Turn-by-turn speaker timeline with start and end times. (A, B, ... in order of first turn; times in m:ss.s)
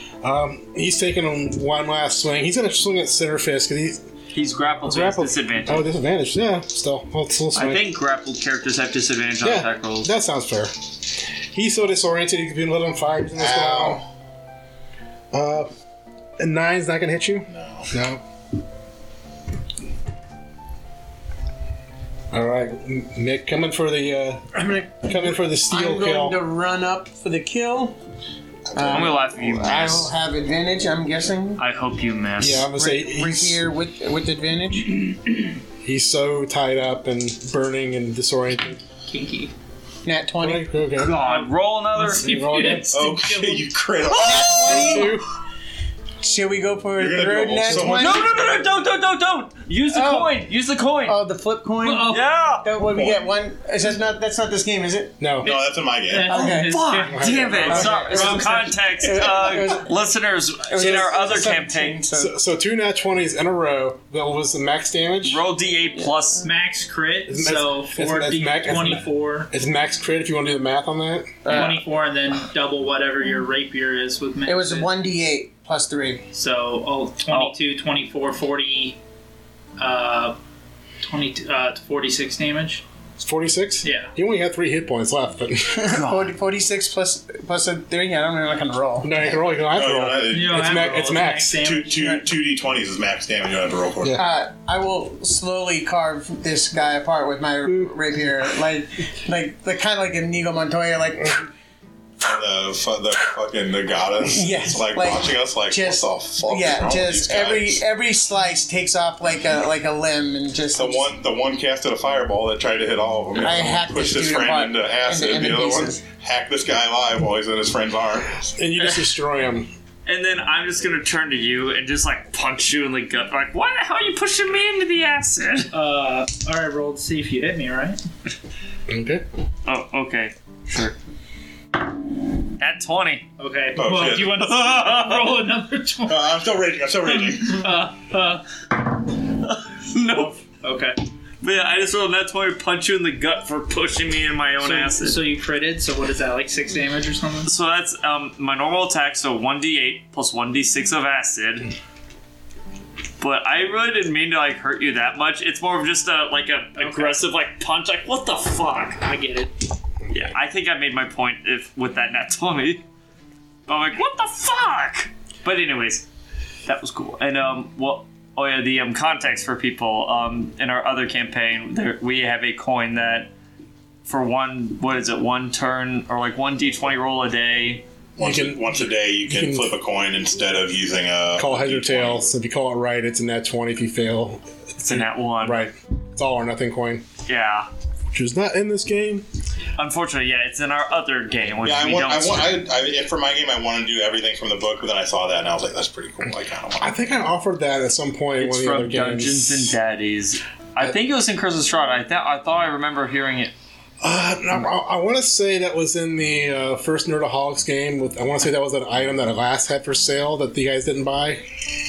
0:00.2-0:04.0 A
0:04.3-0:05.9 B
0:04.8-0:07.9 A
0:07.5-0:10.1 B
0:09.4-0:14.0 A
0:13.4-0:14.1 C
0:15.3-0:15.7 A
0:16.4-0:18.2 A
0:17.5-0:17.9 C
0:22.3-0:26.4 A
0:24.5-0:28.0 D
0:28.7-0:29.2 C
0:28.7-0:31.6 D
0:28.9-0:30.1 B
0:31.6-0:32.7 B
0:32.4-0:33.6 A
0:32.7-0:35.4 D
0:35.8-0:38.8 A
0:39.1-0:39.5 E
0:40.0-0:40.7 D
0:40.4-0:41.1 A
0:41.0-0:42.8 B
0:41.0-0:43.7 E
0:42.2-0:42.9 A
0:42.9-0:45.0 C
0:44.1-0:45.2 D
0:44.1-0:45.1 B
0:44.7-0:45.2 A
0:46.2-0:48.2 D
0:46.9-0:48.3 C
0:47.7-0:51.2 B
0:49.8-0:50.5 D
0:51.0-0:55.3 D
0:51.8-0:52.3 E
0:52.0-0:52.7 B
0:53.0-0:53.2 C
0:55.2-0:55.5 A
0:55.4-0:56.4 C
0:56.1-0:58.7 E
0:56.2-0:56.8 D
0:56.3-1:02.0 B
0:57.0-0:57.9 A
0:57.6-1:00.0 D
1:00.7-1:02.3 D
1:02.1-1:05.4 A
1:05.2-1:06.4 B
1:06.4-1:09.5 E
1:07.3-1:11.6 A
1:11.4-1:11.8 D
1:11.5-1:14.9 E
1:14.4-1:16.2 D
1:16.3-1:19.0 E
1:19.8-1:20.4 E
1:21.0-1:22.8 E
1:23.2-1:26.0 A
1:23.8-1:24.1 E
1:25.7-1:29.5 D
1:26.0-1:26.3 B
1:29.0-1:31.6 A
1:29.7-1:30.6 C
1:30.3-1:32.1 E
1:31.6-1:34.2 C
1:34.1-1:41.5 D
1:37.6-1:37.9 A
1:42.2-1:47.8 C
1:44.3-1:51.1 D
1:50.7-1:58.6 C
1:53.4-1:56.0 D
1:53.5-1:53.8 A
1:58.5-1:59.7 A
2:00.0-2:05.7 B
2:05.7-2:08.0 E
2:08.9-2:09.2 A
2:09.6-2:10.3 B
2:10.7-2:10.9 A
2:12.6-2:13.3 B
2:13.4-2:16.3 E
2:13.7-2:14.5 C
2:14.4-2:15.4 B
2:16.0-2:17.7 C
2:17.0-2:18.5 E
2:19.4-2:20.4 B
2:20.1-2:21.0 E
2:21.4-2:25.2 B
2:24.6-2:27.5 E
2:27.4-2:31.7 B
2:33.2-2:39.0 B
2:36.8-2:37.2 E
2:39.0-2:39.5 E
2:40.1-2:42.8 B
2:43.7-2:46.1 B
2:46.6-2:53.3 B
2:54.0-2:57.8 B
2:58.2-3:02.2 C
2:58.2-2:59.7 A
3:01.4-3:07.0 A
3:04.8-3:05.6 B
3:07.3-3:07.7 B
3:08.1-3:09.2 A
3:09.8-3:12.6 B
3:11.6-3:16.9 C
3:16.8-3:19.8 A
3:18.4-3:23.5 B
3:24.0-3:31.4 A